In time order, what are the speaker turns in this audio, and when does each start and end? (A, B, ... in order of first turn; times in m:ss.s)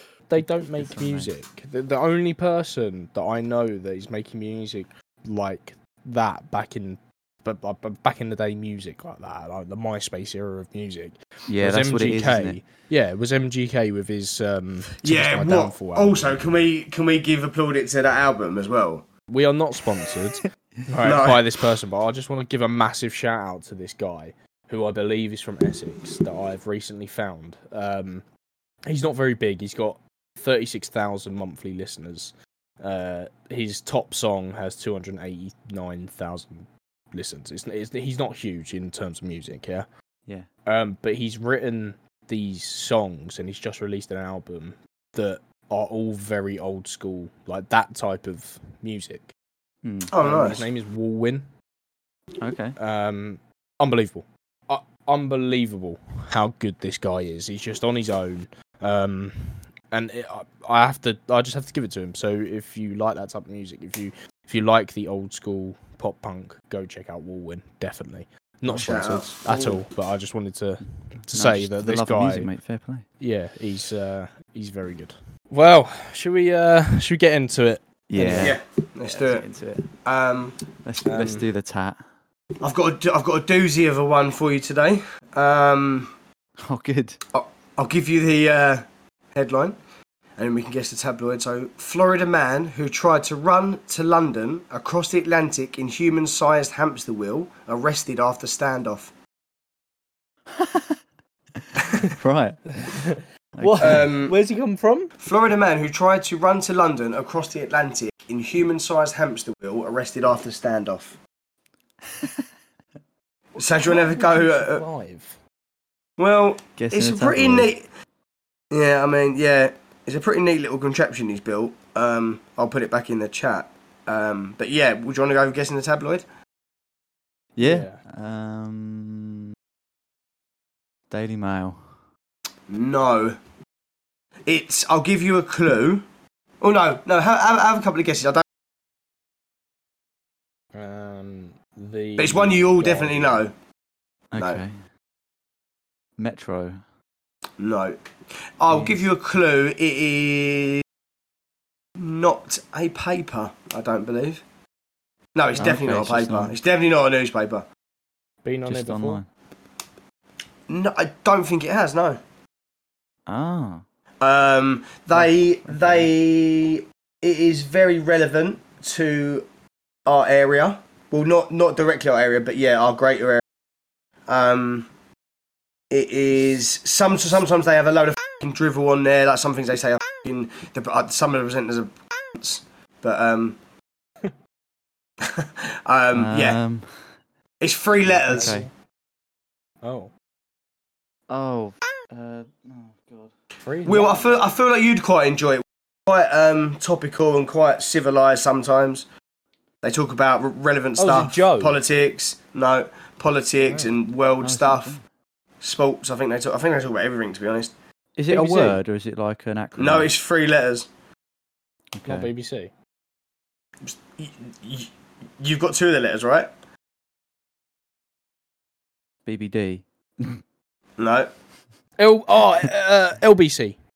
0:00.3-0:16.4 A
0:00.4-0:01.3 B
0:11.5-0:12.6 B
0:14.9-0:19.0 C
0:19.3-0:28.2 A
0:21.0-0:21.4 C
0:28.9-0:39.8 A
0:40.6-0:49.3 A
0:49.8-0:50.1 B
0:50.1-0:50.6 C
0:50.2-0:51.5 A
0:52.4-0:52.8 B
0:52.8-1:12.5 A
1:08.6-1:08.9 B
1:08.8-1:09.8 C
1:11.2-1:13.0 B
1:13.2-1:18.5 A
1:18.1-1:19.9 B
1:18.4-1:20.6 C
1:20.8-1:22.0 B
1:21.0-1:21.4 A
1:22.6-1:26.1 C
1:26.6-1:27.2 B
1:27.3-1:29.8 C
1:30.4-1:39.1 C
1:40.5-1:41.0 B
1:41.5-1:44.1 B
1:42.8-1:45.1 A
1:43.8-1:44.3 C
1:45.2-1:51.2 C
1:52.1-1:52.4 B
1:53.6-1:54.8 C
1:53.6-1:55.4 A
1:56.2-1:57.8 C
1:56.8-1:57.7 B
1:58.7-2:06.2 C
2:07.6-2:09.5 B
2:07.6-2:08.0 A
2:11.1-2:12.0 B
2:12.7-2:13.4 C
2:14.5-2:16.0 C
2:16.6-2:18.4 C
2:20.7-2:23.4 A
2:22.2-2:23.5 C
2:24.3-2:24.8 B
2:26.2-2:26.8 B
2:27.6-2:28.0 C
2:28.6-2:30.8 C
2:32.0-2:34.4 C
2:35.3-2:37.6 C
2:35.6-2:36.6 B
2:38.4-2:39.2 A
2:38.6-2:39.2 B
2:40.7-2:42.2 C
2:43.3-2:43.8 B
2:44.2-2:49.4 C
2:45.2-2:46.1 B
2:50.0-2:53.4 C
2:54.3-2:54.9 C
2:55.9-3:03.6 C
3:05.2-3:06.6 C
3:06.1-3:07.1 B
3:07.6-3:08.6 C
3:08.0-3:08.7 B
3:08.3-3:08.7 A
3:09.8-3:10.1 A
3:11.3-3:13.3 B
3:13.6-3:14.4 A
3:13.8-3:19.0 C
3:19.8-3:25.0 C
3:21.0-3:21.8 A
3:23.6-3:23.9 A
3:24.4-3:25.0 B
3:25.6-3:27.7 C
3:28.2-3:30.1 B
3:28.3-3:28.8 A
3:29.8-3:30.9 C
3:31.9-3:32.3 B
3:32.0-3:32.7 A
3:33.8-3:36.5 C
3:39.2-3:40.4 B
3:41.0-3:41.3 C
3:42.0-3:43.8 A